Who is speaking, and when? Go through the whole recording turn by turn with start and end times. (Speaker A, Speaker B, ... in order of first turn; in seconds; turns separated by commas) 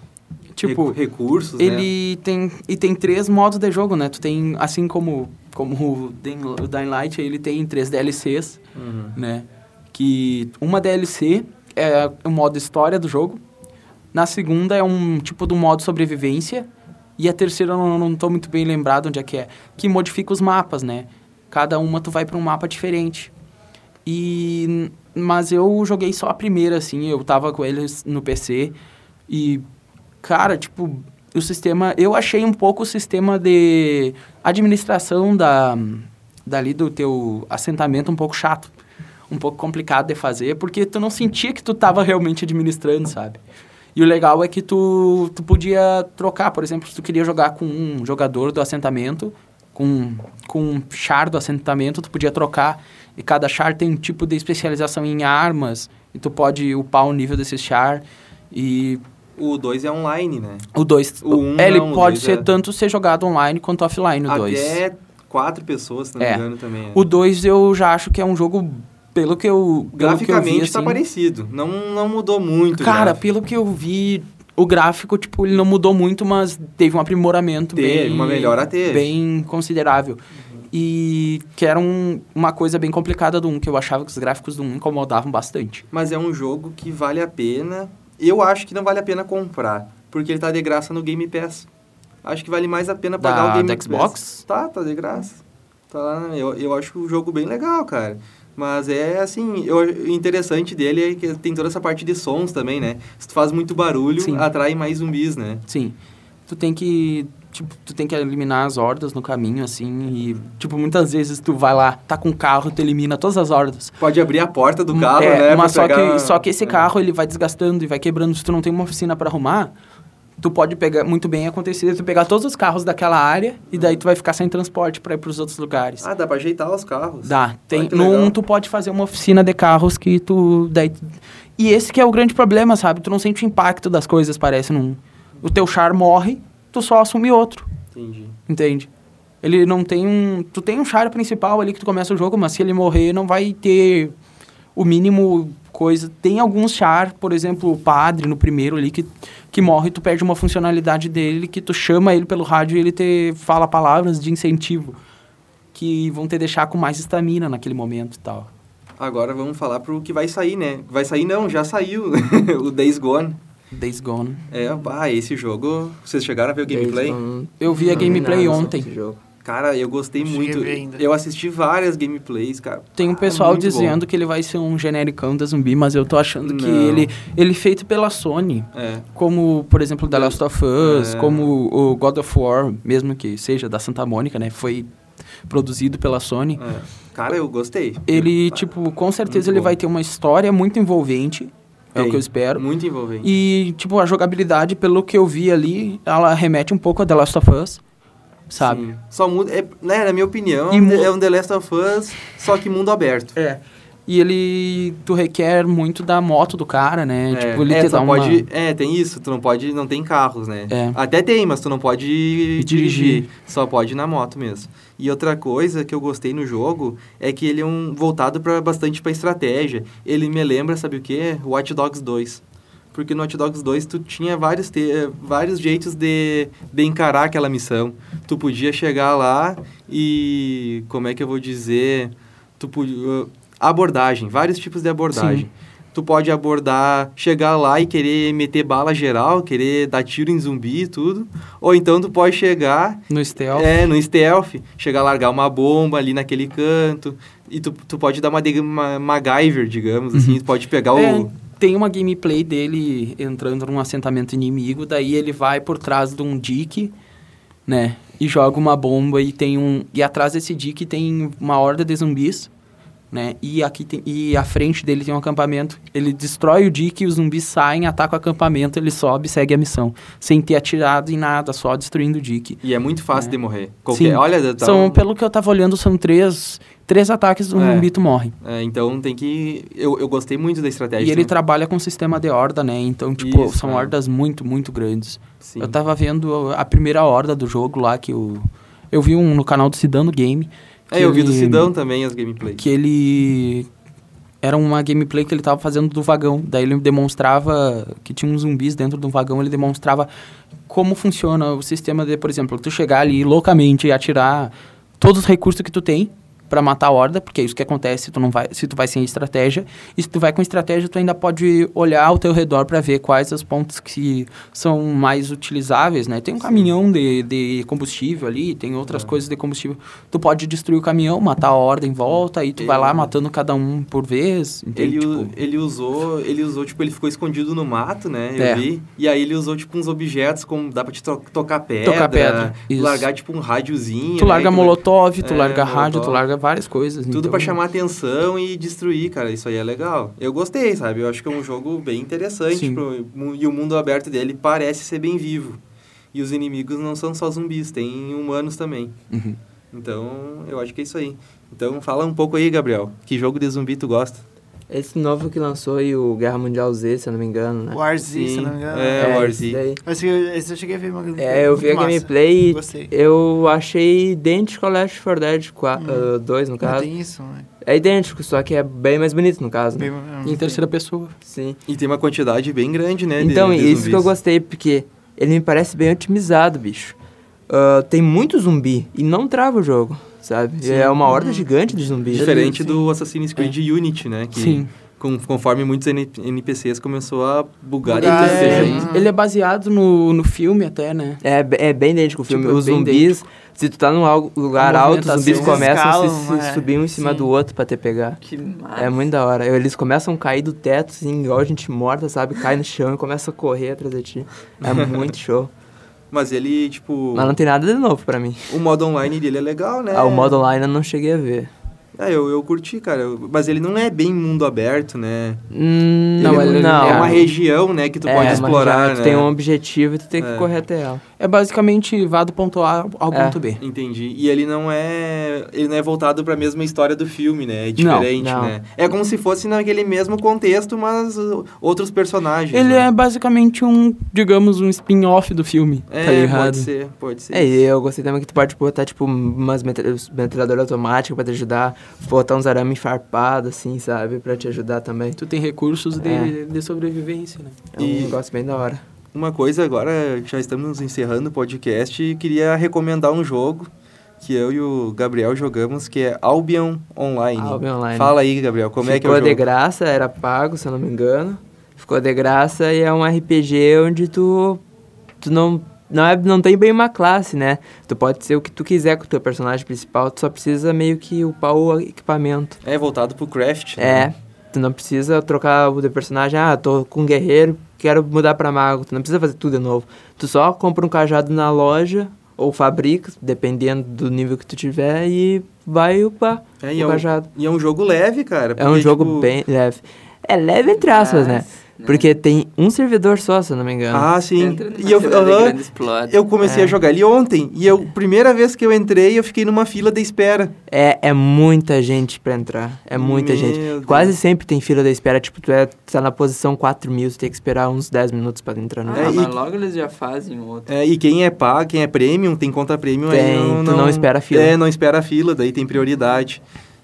Speaker A: 0.6-1.0, Speaker B: 0.6-1.9, Speaker A: 1.6-8.6, Speaker B: 8.7-9.2, Speaker A: 9.1-13.4, Speaker A: 14.1-16.7, Speaker A: 17.2-23.3, Speaker A: 24.1-28.7, Speaker A: 29.3-29.6, Speaker A: 30.2-38.7, Speaker A: 39.3-43.4, Speaker A: 43.9-59.0, Speaker B: 59.4-60.7, Speaker A: 60.7-64.8, Speaker B: 61.2-62.5, Speaker B: 64.3-67.0, Speaker A: 66.2-71.0, Speaker B: 70.0-73.2, Speaker A: 72.8-85.8, Speaker B: 77.8-79.1, Speaker B: 85.9-91.7, Speaker B: 92.2-105.6, Speaker A: 93.2-94.4, Speaker A: 104.2-104.5, Speaker A: 105.7-106.0, Speaker A: 106.5-114.0, Speaker B: 114.0-116.9, Speaker A: 114.9-119.7, Speaker A: 120.4-126.1, Speaker B: 123.7-124.0, Speaker B: 126.0-128.3, Speaker A: 127.2-137.7, Speaker B: 137.9-138.4, Speaker A: 138.5-138.9, Speaker A: 139.4-144.1, Speaker A: 144.7-155.0, Speaker A: 155.7-158.5, Speaker B: 159.0-163.4, Speaker A: 163.7-164.4, Speaker B: 164.5-167.2, Speaker C: 166.7-169.2, Speaker A: 167.6-168.9, Speaker B: 167.7-168.6, Speaker B: 169.4-174.0, Speaker D: 170.2-171.0, Speaker A: 173.0-184.9, Speaker B: 176.4-177.1, Speaker B: 178.7-179.1, Speaker B: 180.1-181.5, Speaker A: 185.5-186.6, Speaker B: 186.6-188.6, Speaker A: 188.1-192.6, Speaker B: 189.2-189.7, Speaker B: 191.9-193.3, Speaker A: 193.2-197.8, Speaker A: 198.5-198.8, Speaker B: 198.6-203.4, Speaker A: 200.7-201.1, Speaker A: 203.4-208.5, Speaker B: 207.3-251.3, Speaker A: 210.7-211.0, Speaker A: 212.6-213.3, Speaker A: 235.1-235.5, Speaker A: 243.1-243.9, Speaker A: 250.1-250.4, Speaker A: 250.9-256.9, Speaker A: 257.7-262.5, Speaker A: 263.1-272.6, Speaker B: 272.6-275.0, Speaker A: 273.9-278.3, Speaker B: 277.6-277.9, Speaker B: 278.4-281.3, Speaker A: 281.0-291.7, Speaker B: 283.2-283.9, Speaker B: 285.4-285.8, Speaker B: 290.9-292.6, Speaker A: 292.6-293.7, Speaker A: 294.4-300.1, Speaker A: 300.7-325.3, Speaker B: 316.4-316.7, Speaker B: 318.9-319.1, Speaker B: 322.1-323.1, Speaker B: 324.8-336.2, Speaker A: 328.4-328.6, Speaker A: 331.8-333.1, Speaker A: 334.2-337.6, Speaker B: 337.1-345.6, Speaker A: 342.5-342.8, Speaker B: 346.1-349.0, Speaker A: 349.1-349.4, Speaker B: 349.7-354.2, Speaker C: 354.7-357.9, Speaker D: 357.7-362.9, Speaker B: 358.0-359.6, Speaker C: 359.0-359.8, Speaker C: 361.2-366.9, Speaker D: 365.8-367.5, Speaker C: 367.6-370.5, Speaker D: 369.8-370.5, Speaker A: 370.2-371.1, Speaker C: 371.2-371.6, Speaker B: 371.7-374.1, Speaker C: 373.2-376.9, Speaker C: 377.5-382.6, Speaker A: 380.7-380.9, Speaker D: 381.0-381.5, Speaker B: 382.1-388.9, Speaker A: 382.1-382.8, Speaker A: 384.3-384.7, Speaker C: 387.8-388.9, Speaker D: 387.9-389.1, Speaker A: 388.2-391.2, Speaker C: 391.2-398.2, Speaker A: 392.3-393.2, Speaker A: 394.5-395.7, Speaker D: 395.2-397.2, Speaker E: 398.2-399.1, Speaker C: 398.8-405.5, Speaker B: 404.6-405.1, Speaker B: 406.1-407.4, Speaker C: 407.1-408.6, Speaker B: 408.5-410.4, Speaker C: 409.9-411.5, Speaker B: 411.9-415.4, Speaker C: 415.5-417.3, Speaker B: 416.2-419.3, Speaker A: 416.2-417.3, Speaker C: 418.0-421.0, Speaker A: 418.2-418.5, Speaker B: 420.2-420.5, Speaker A: 421.2-423.6, Speaker C: 423.1-423.4, Speaker B: 423.6-432.9, Speaker A: 427.8-428.1, Speaker C: 428.2-428.6, Speaker A: 432.5-436.7, Speaker B: 435.9-437.6, Speaker C: 437.3-445.2, Speaker A: 445.1-447.6, Speaker C: 446.0-446.3, Speaker C: 447.7-448.8, Speaker B: 447.8-448.2, Speaker B: 449.1-459.4, Speaker C: 457.4-458.2, Speaker C: 458.8-464.6, Speaker C: 465.2-472.6, Speaker B: 472.6-474.1, Speaker C: 473.8-487.3, Speaker B: 486.6-489.3, Speaker C: 488.6-494.1, Speaker E: 490.8-492.1, Speaker B: 493.9-500.5, Speaker E: 494.3-496.2, Speaker C: 496.4-496.8, Speaker C: 500.7-509.2, Speaker B: 502.9-504.1, Speaker E: 508.9-510.7, Speaker B: 508.9-509.3, Speaker B: 510.7-516.4, Speaker C: 513.1-514.5